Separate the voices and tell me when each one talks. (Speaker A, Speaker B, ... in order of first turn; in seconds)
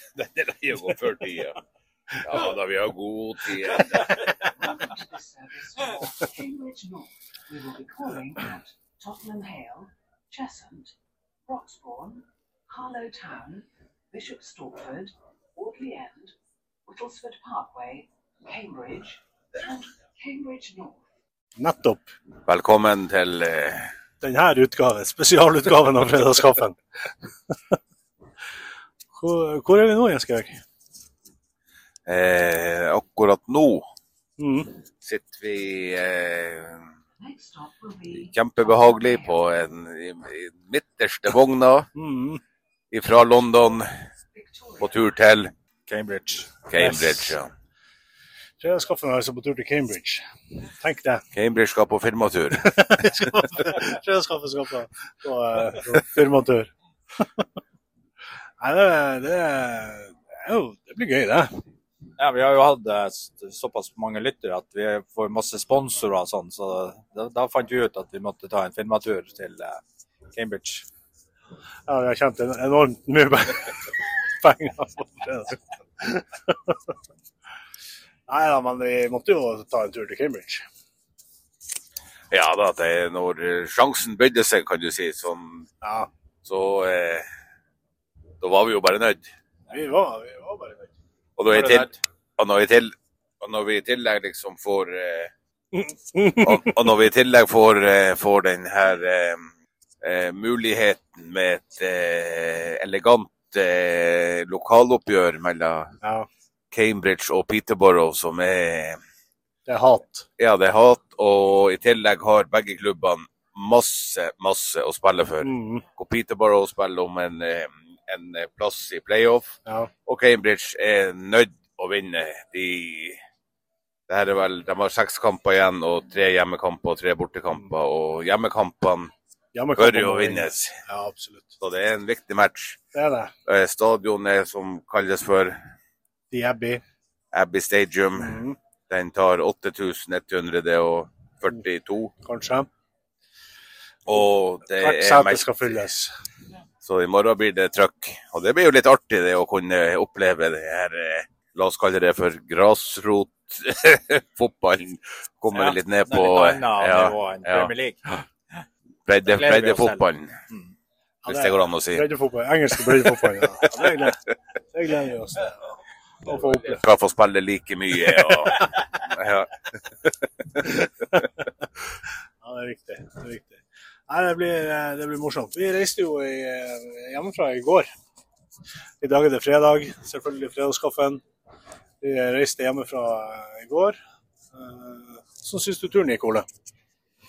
Speaker A: 0.2-1.6, 2.2-4.2, 22.4-23.9, 32.1-33.9, 35.0-36.9, 38.1-41.9, 42.9-43.9, 44.8-45.5, 46.7-47.5, 51.3-52.7, 82.3-85.7, 86.5-87.2, 88.4-89.3, 91.4-95.3, 96.3-99.5, 100.0-105.9, 106.7-109.0, 110.4-123.2, 124.1-129.1, 129.8-130.8, 131.6-132.8, 133.5-135.6, 137.3-142.1, 144.1-145.8, 146.8-158.1, 159.1-160.3, 161.3-162.1, 166.3-170.1
Speaker B: 4.6-10.9, 11.5-16.3, 16.9-21.0, 37.2-39.4, 44.3-44.9
Speaker C: 21.6-22.1, 24.2-26.8, 29.1-30.6, 34.4-34.7, 42.0-42.4, 46.9-47.2, 48.6-51.2, 52.6-57.2, 58.6-61.5, 71.9-73.7, 74.4-76.8, 78.3-80.6, 85.8-86.1, 89.7-90.9, 91.5-91.9, 95.7-96.7, 106.0-106.3, 109.7-110.3, 115.4-115.8, 119.7-119.9, 129.5-131.5, 132.9-133.3, 136.3-136.8, 138.2-138.6, 142.2-142.7, 144.8-146.1, 161.2-164.2, 164.7-165.7, 166.2-166.8, 172.4-177.9, 179.0-181.2, 182.0-184.0, 184.5-186.5
Speaker D: 45.9-46.6, 62.2-69.8, 70.3-70.9, 155.5-158.6, 159.2-160.7